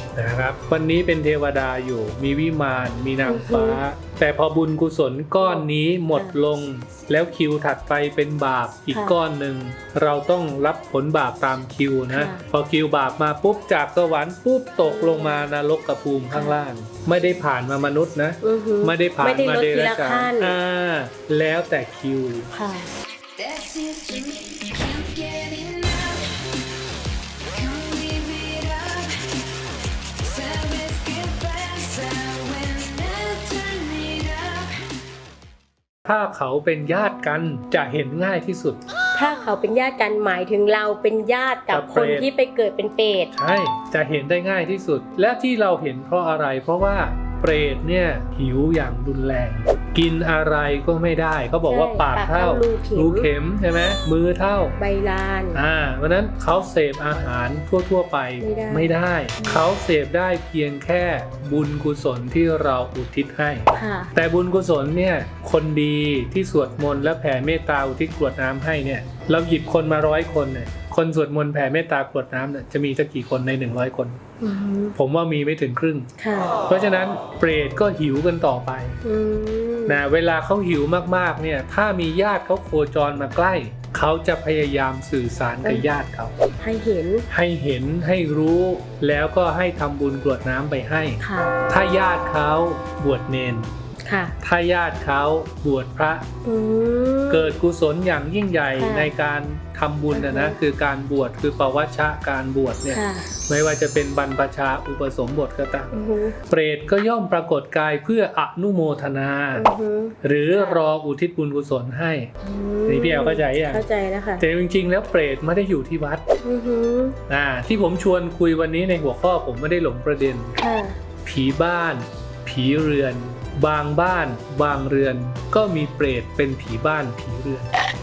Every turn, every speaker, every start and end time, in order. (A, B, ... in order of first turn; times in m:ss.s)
0:00.2-0:22.5 A
0:03.2-0:03.8 B
0:05.4-0:06.4 B
0:08.9-0:09.2 B
0:12.1-0:12.4 B
0:14.8-0:15.4 B
0:18.4-0:20.5 B
0:22.5-0:22.9 B
0:23.4-0:26.4 C
0:27.5-0:29.4 C
0:30.2-0:34.8 C
0:36.0-0:38.8 A
0:39.1-0:43.3 B
0:41.7-0:42.3 A
0:43.3-0:54.7 A
0:51.6-0:53.3 B
0:54.8-0:55.6 B
0:55.5-1:14.2 A
0:58.4-0:59.6 B
1:03.7-1:04.1 B
1:14.4-1:15.0 B
1:14.9-1:16.1 A
1:16.2-1:16.5 B
1:16.7-1:19.0 A
1:19.0-1:20.0 B
1:19.9-1:26.3 A
1:26.6-1:27.2 B
1:27.3-1:33.7 A
1:31.2-1:31.5 B
1:34.0-1:34.3 B
1:34.4-1:36.2 A
1:36.4-1:37.5 B
1:37.3-1:45.9 A
1:38.8-1:39.1 B
1:40.1-1:40.6 B
1:42.9-1:43.3 B
1:45.9-1:46.3 B
1:46.5-1:49.6 A
1:49.5-1:50.8 B
1:50.2-1:52.3 A
1:52.4-1:54.4 B
1:52.9-1:53.8 A
1:54.4-1:56.2 A
1:56.4-1:57.2 B
1:57.3-2:00.6 A
2:00.6-2:01.0 B
2:01.2-2:07.7 A